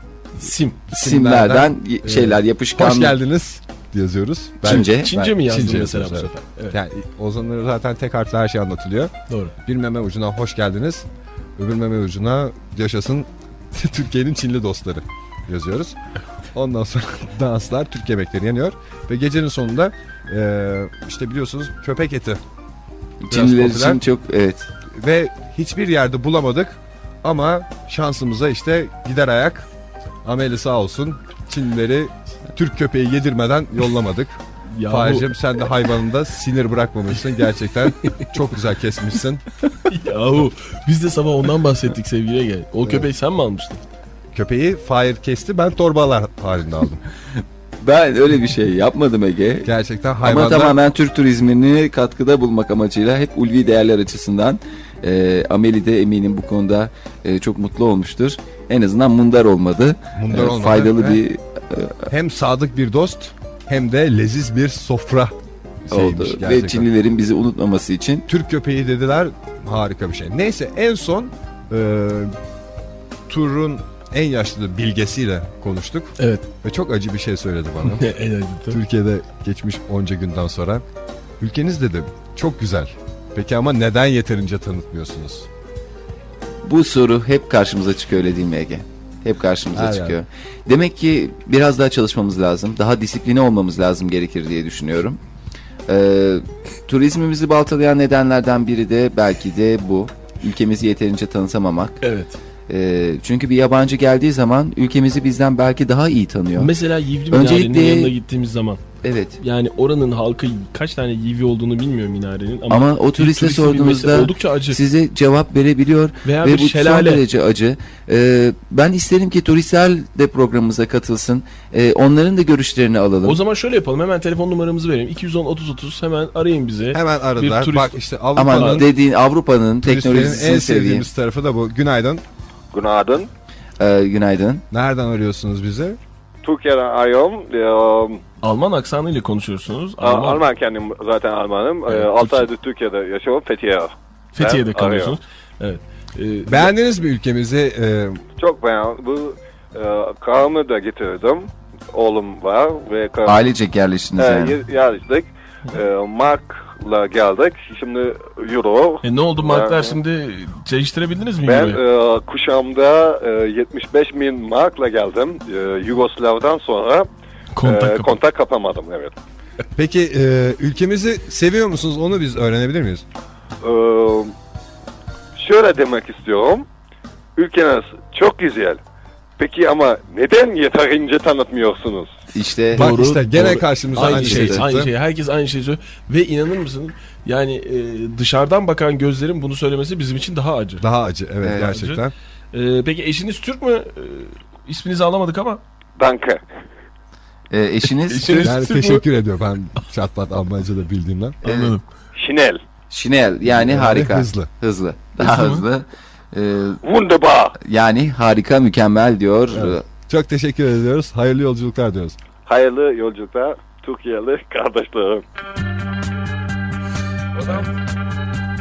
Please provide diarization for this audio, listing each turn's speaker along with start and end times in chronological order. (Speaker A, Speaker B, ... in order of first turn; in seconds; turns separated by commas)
Speaker A: 0.4-0.8, Speaker B: 0.9-16.0, Speaker C: 0.9-3.2, Speaker A: 2.1-2.4, Speaker C: 4.6-5.1, Speaker A: 4.8-6.8, Speaker A: 9.3-9.5, Speaker B: 16.5-22.4, Speaker C: 23.2-24.7, Speaker B: 23.3-24.0, Speaker B: 24.9-29.7, Speaker B: 30.2-39.4, Speaker A: 34.7-35.3, Speaker A: 38.0-38.3, Speaker A: 39.8-43.8, Speaker B: 44.3-47.0, Speaker C: 47.8-49.7, Speaker B: 49.6-50.8, Speaker C: 50.2-62.1, Speaker B: 60.1-61.2, Speaker B: 62.1-66.9, Speaker C: 65.9-68.3, Speaker B: 68.3-72.3, Speaker B: 73.3-78.1, Speaker A: 76.2-76.5, Speaker A: 77.8-78.8, Speaker B: 78.7-80.8, Speaker B: 81.4-85.5, Speaker C: 86.6-95.2, Speaker B: 89.7-90.2, Speaker C: 95.9-102.0, Speaker A: 102.0-102.3, Speaker C: 102.7-106.7, Speaker A: 106.5-108.8, Speaker C: 107.3-108.1, Speaker C: 109.0-109.4, Speaker A: 109.4-114.8, Speaker C: 112.7-123.4, Speaker A: 116.2-117.2, Speaker A: 123.2-128.9, Speaker B: 126.9-128.9, Speaker C: 128.3-131.1, Speaker B: 129.8-132.2, Speaker D: 132.7-133.3, Speaker C: 133.8-134.6, Speaker B: 134.7-136.0, Speaker D: 136.4-138.2, Speaker A: 138.4-140.4, Speaker D: 140.0-145.2, Speaker A: 141.9-142.5, Speaker A: 144.3-146.7, Speaker B: 146.4-148.2, Speaker D: 148.4-153.5, Speaker C: 153.2-154.6, Speaker D: 154.2-160.0, Speaker A: 159.0-161.8, Speaker D: 161.4-167.1, Speaker A: 167.5-168.2, Speaker D: 167.6-169.1, Speaker B: 169.8-173.0, Speaker D: 173.6-174.3, Speaker D: 175.3-176.7, Speaker D: 177.3-178.8, Speaker D: 179.4-182.2, Speaker C: 182.3-183.0, Speaker B: 182.7-184.9, Speaker A: 182.7-190.8, Speaker C: 183.9-184.6, Speaker B: 190.8-192.1, Speaker A: 191.4-195.6, Speaker D: 196.0-196.4, Speaker C: 197.5-198.5, Speaker A: 197.9-199.1, Speaker B: 198.4-201.4, Speaker A: 201.4-201.8, Speaker C: 201.4-201.7, Speaker D: 202.1-202.6, Speaker C: 202.9-206.8, Speaker B: 203.4-204.5, Speaker A: 205.2-205.7, Speaker D: 206.8-207.6, Speaker C: 207.6-209.8, Speaker B: 209.5-212.2, Speaker D: 212.4-215.2, Speaker A: 217.4-217.7